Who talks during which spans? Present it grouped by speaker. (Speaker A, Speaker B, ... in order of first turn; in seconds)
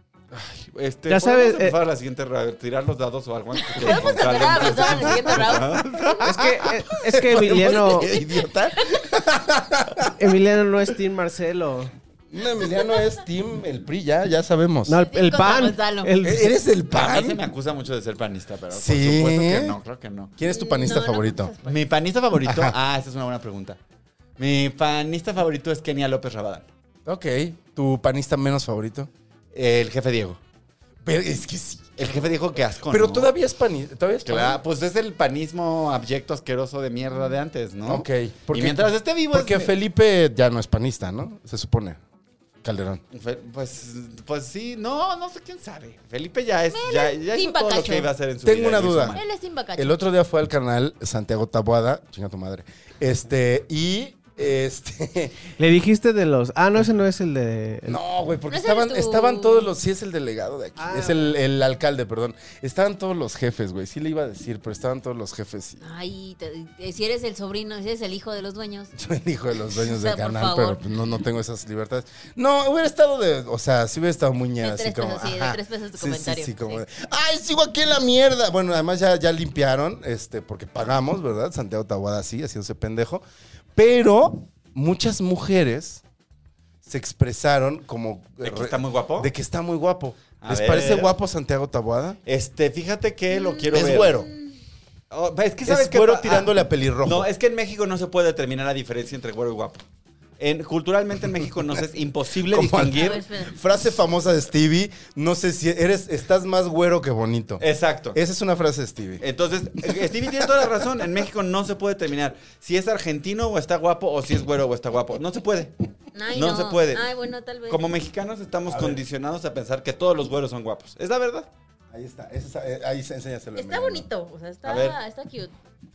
Speaker A: 0.3-6.3, 16.9-20.3, 21.6-23.8, 24.4-26.7, 29.5-30.4, 32.0-33.3, 34.2-39.7, 43.1-49.2, 88.4-89.3, 90.4-91.1, 92.2-94.1, 95.1-99.8, 100.4-103.2, 107.6-108.2, 109.2-115.7, 116.3-117.1, 117.7-121.5, 124.6-125.0
Speaker B: 1.1-1.8, 6.2-8.1, 10.2-11.9, 14.9-16.5, 55.6-58.0, 60.8-61.2
Speaker C: 3.5-6.3, 8.0-9.1, 15.0-16.1, 20.4-21.8, 46.7-48.1, 49.1-49.9, 58.5-59.7, 65.8-68.9, 69.8-70.8, 74.6-76.8, 93.3-94.5, 102.9-103.6, 116.1-117.8, 123.5-125.5
Speaker D: 3.8-10.2, 12.3-15.0, 16.2-17.4, 18.7-19.8, 20.4-21.5, 22.4-22.8, 27.1-29.1, 31.0-32.2, 32.9-34.6, 37.9-42.0, 42.6-43.0, 48.4-49.2, 49.8-55.4, 57.9-65.8, 69.0-83.2, 83.7-86.0, 86.8-92.2, 93.7-94.3, 95.7-97.3, 102.4-109.2, 118.7-119.0, 121.9-124.1